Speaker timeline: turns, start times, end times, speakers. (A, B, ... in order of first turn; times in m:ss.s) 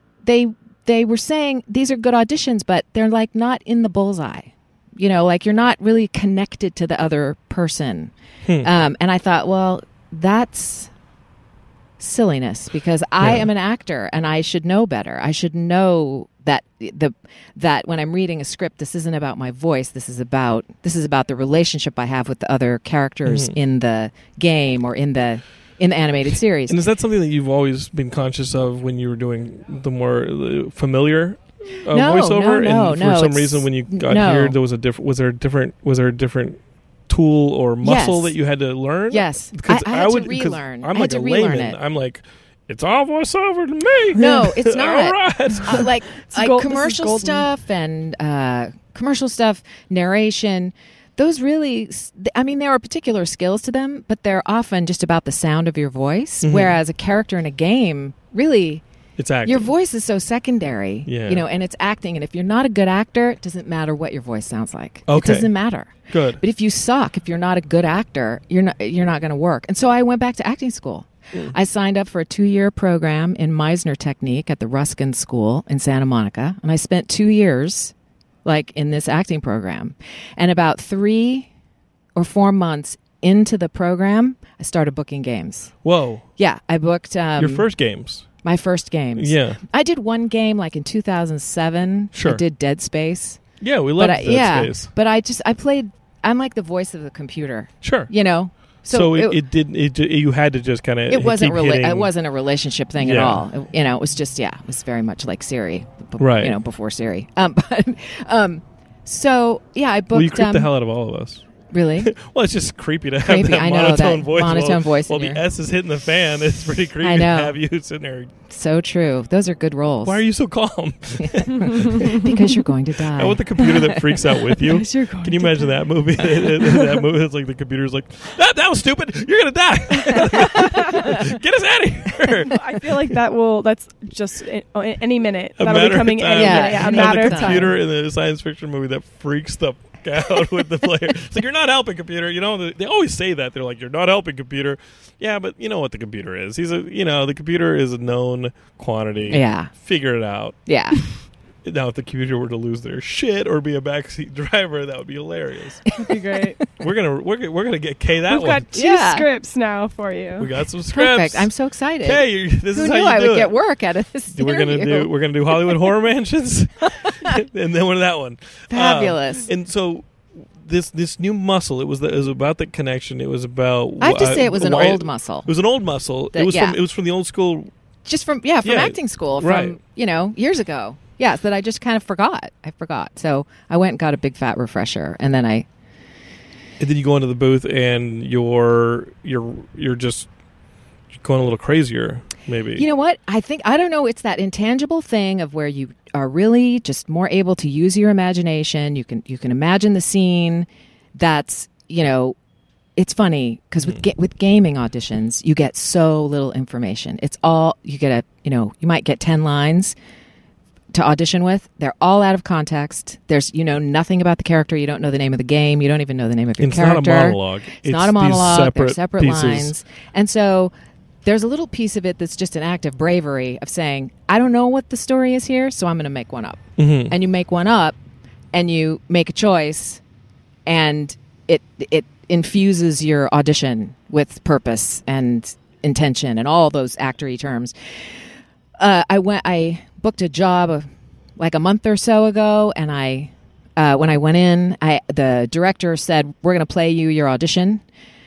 0:00.2-0:10.9 A
0:12.0-0:26.8 A
0:13.2-0:13.5 B
0:23.2-0:23.6 B
0:26.7-0:45.9 B
0:31.9-0:34.6 A
0:37.8-0:38.4 A
0:39.1-0:41.8 A
0:44.1-0:58.8 A
0:46.3-0:47.5 C
0:56.4-0:56.8 B
0:59.2-0:59.7 B
0:59.4-1:17.9 A
1:01.1-1:01.4 B
1:05.1-1:05.5 B
1:06.1-1:06.4 B
1:18.4-1:21.5 A
1:22.2-1:25.7 A
1:25.8-1:26.2 B
1:26.4-1:27.7 A
1:27.4-1:28.3 B
1:28.4-1:33.4 A
1:29.2-1:29.6 B
1:32.1-1:32.4 B
1:33.6-1:34.9 B
1:34.0-1:39.4 A
1:37.8-1:38.1 B
1:38.9-1:42.1 B
1:41.1-1:50.7 A
1:43.0-1:43.4 B
1:46.2-1:46.6 B
1:50.1-1:51.5 B
1:51.7-1:52.1 A
1:52.0-1:58.3 B
1:53.2-1:55.4 A
1:57.0-1:57.6 A
1:58.5-2:00.2 A
2:00.0-2:02.2 B
2:01.2-2:04.0 A
2:03.1-2:12.9 B
2:04.6-2:05.7 C
2:10.2-2:11.2 A
2:12.5-2:17.7 C
2:15.6-2:30.6 B
2:16.4-2:17.8 A
2:29.3-2:29.7 A
2:30.7-2:31.0 A
2:31.6-2:35.8 B
2:35.9-2:36.7 A
2:36.0-2:36.6 C
2:36.8-2:38.7 B
2:38.3-2:40.5 C
2:38.7-2:39.3 A
2:40.4-2:41.5 B
2:40.9-2:45.9 A
2:42.0-2:43.6 B
2:44.3-2:57.7 B
2:46.9-2:47.4 A
2:48.7-2:49.5 A
2:54.0-2:55.5 A
2:56.3-2:56.8 A
2:58.1-3:05.7 A
2:58.6-2:59.8 B
3:06.8-3:10.3 B
3:11.1-3:12.8 B
3:12.8-3:22.4 A
3:23.0-3:30.0 A
3:30.9-3:40.7 A
3:36.6-3:39.8 B
3:41.2-3:48.0 A
3:46.8-3:47.2 B
3:48.5-3:50.0 A
3:50.7-3:57.7 A
3:58.8-4:00.9 A
4:01.4-4:07.8 A